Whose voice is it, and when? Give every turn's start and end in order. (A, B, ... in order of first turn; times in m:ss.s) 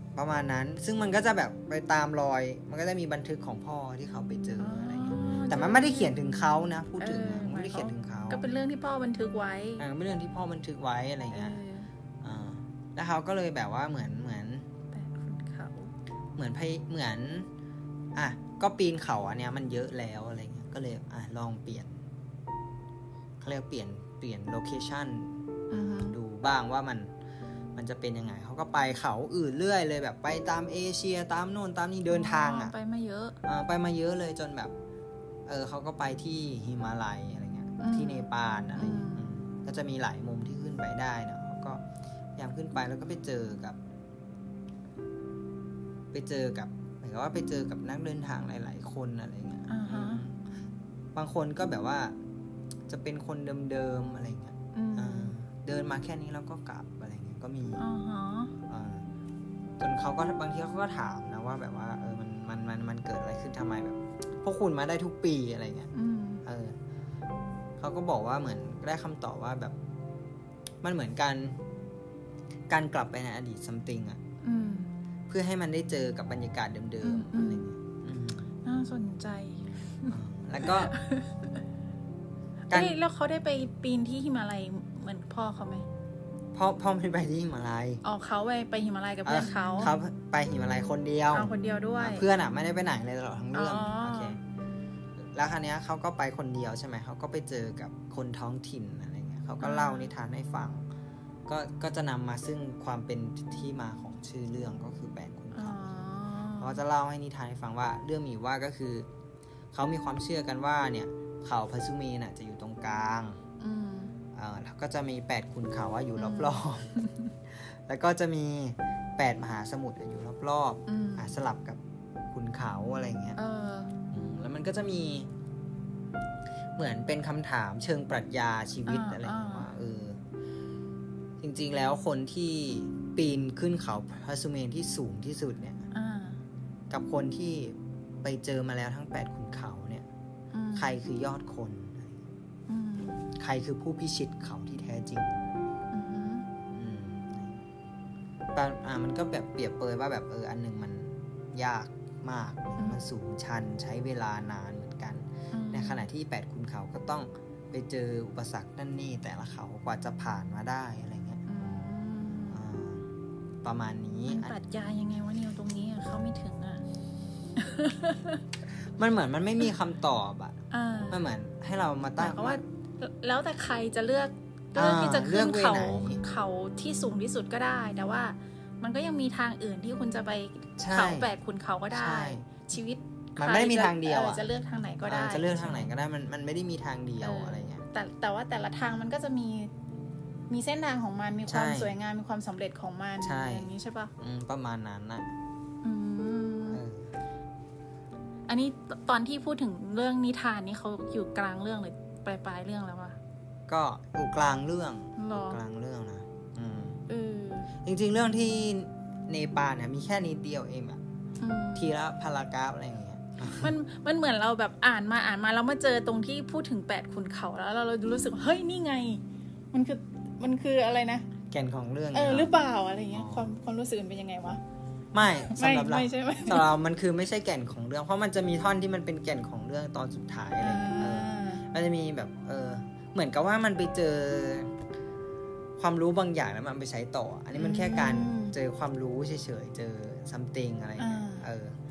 0:00.2-0:08.4 A
0:04.6-0:06.2 B
0:07.0-0:09.8 B
0:09.8-0:11.6 A
0:11.3-0:11.9 B
0:12.2-0:14.7 A
0:14.9-0:15.9 B
0:16.4-0:17.5 A
0:18.2-0:22.0 A
0:23.4-0:27.1 A
0:25.7-0:26.2 B
0:27.8-0:32.7 A
0:32.1-0:33.4 B
0:33.4-0:34.7 A
0:35.5-0:41.8 A
0:37.8-0:39.3 B
0:42.4-0:43.8 A
0:46.1-0:50.4 A
0:49.7-0:50.2 B
0:51.2-0:52.2 A
0:52.9-0:57.8 A
0:54.7-0:55.3 B
0:57.8-0:58.6 B
0:58.7-0:59.1 A
0:59.8-1:05.9 A
1:05.9-1:06.4 B
1:06.4-1:06.8 A
1:07.8-1:09.8 A
1:10.8-1:11.6 A
1:12.7-1:14.2 A
1:14.4-1:14.9 B
1:15.3-1:18.5 A
1:17.0-1:17.7 B
1:18.6-1:21.6 B
1:20.1-1:21.0 A
1:22.7-1:23.0 A
1:22.7-1:25.9 B
1:26.5-1:28.0 A
1:28.0-1:29.9 B
1:29.2-1:34.4 A
1:31.3-1:32.3 B
1:33.5-1:34.4 B
1:35.2-1:40.9 A
1:39.6-1:40.1 B
1:41.5-1:45.9 A
1:45.5-1:46.8 B
1:46.6-1:49.1 A
1:49.7-1:53.4 A
1:53.6-1:54.1 B
1:54.3-1:57.0 A
1:56.2-1:57.3 B
1:57.5-2:01.8 A
2:00.9-2:01.4 B
2:02.3-2:03.4 A
2:03.4-2:03.9 B
2:04.1-2:05.3 A
2:06.8-2:10.2 A
2:08.9-2:09.7 B
2:11.4-2:15.8 A
2:15.9-2:16.4 B
2:16.9-2:20.1 A
2:20.5-2:20.9 B
2:20.8-2:22.2 A
2:22.7-2:23.2 B
2:23.4-2:25.4 A
2:25.9-2:26.5 B
2:26.7-2:27.6 A
2:28.6-2:41.4 A
2:32.8-2:33.0 B
2:35.5-2:36.1 B
2:41.5-2:42.6 B
2:42.5-2:43.1 A
2:43.6-2:44.6 A
2:44.3-2:46.8 B
2:47.6-2:48.4 B
2:48.8-2:50.6 A
2:50.7-2:51.2 B
2:51.1-2:52.6 A
2:52.2-3:05.9 B
2:54.8-2:56.2 A
3:00.8-3:01.3 A
3:01.9-3:02.7 A
3:03.4-3:04.4 A
3:05.1-3:07.8 A
3:07.2-3:09.7 B
3:10.5-3:14.1 B
3:11.5-3:11.9 A
3:13.2-3:15.3 A
3:15.8-3:16.8 B
3:16.7-3:17.1 A
3:18.5-3:23.2 B
3:23.7-3:27.0 A
3:25.2-3:25.6 B
3:27.1-3:27.7 B
3:27.8-3:31.0 A
3:31.4-3:32.0 B
3:31.8-3:33.7 A
3:33.5-3:41.3 B
3:41.5-3:42.5 A
3:42.1-3:44.6 B
3:43.1-3:43.5 A
3:45.1-3:54.7 A
3:45.4-3:46.7 B
3:50.6-3:51.6 B
3:55.8-4:01.8 A
3:57.6-3:58.6 B
4:01.0-4:01.5 B